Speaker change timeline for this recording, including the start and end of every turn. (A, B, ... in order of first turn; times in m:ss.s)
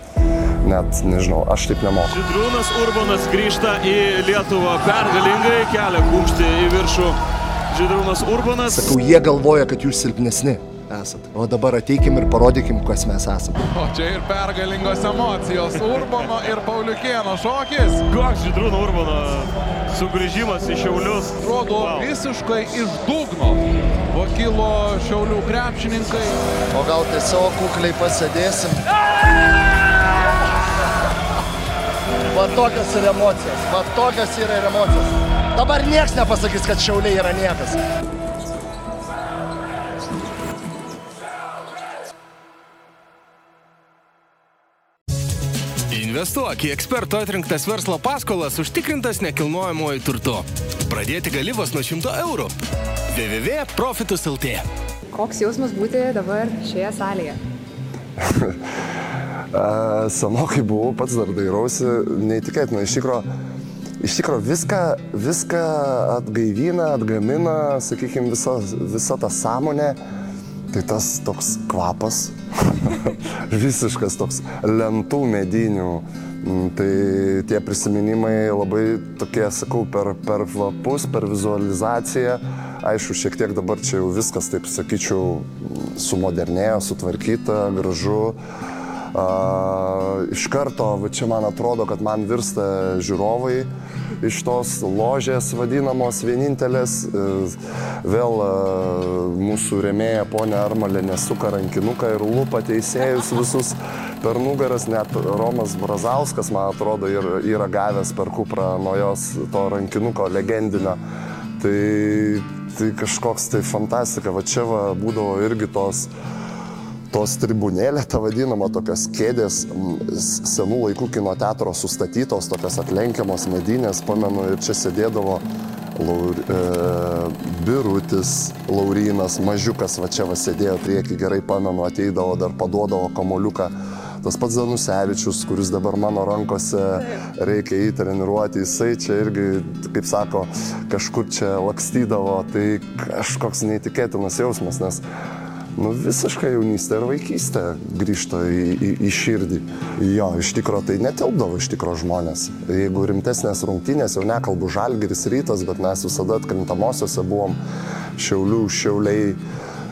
0:00.6-0:02.2 A
0:02.1-0:07.2 B
0:07.7-0:08.9 B
0:08.7-0:13.6 C
0:13.7-0:18.0 D
0:18.1-0:22.1 B
0:21.4-0:26.4 D
0:26.7-0:28.8 C
0:32.3-0:37.8 C
0:45.9-0:52.5 E
0:53.1-0:54.6 E
0:55.1-0:57.4 F
0:58.2-0:58.6 A
0:59.5-1:03.3 A
1:04.0-1:10.0 A
1:10.7-1:28.4 A
1:29.1-1:33.7 A
1:34.2-1:51.0 A
1:51.6-1:56.1 A
1:57.1-2:13.7 A
2:14.2-2:25.0 A
2:25.8-2:37.6 A
2:38.2-2:39.4 A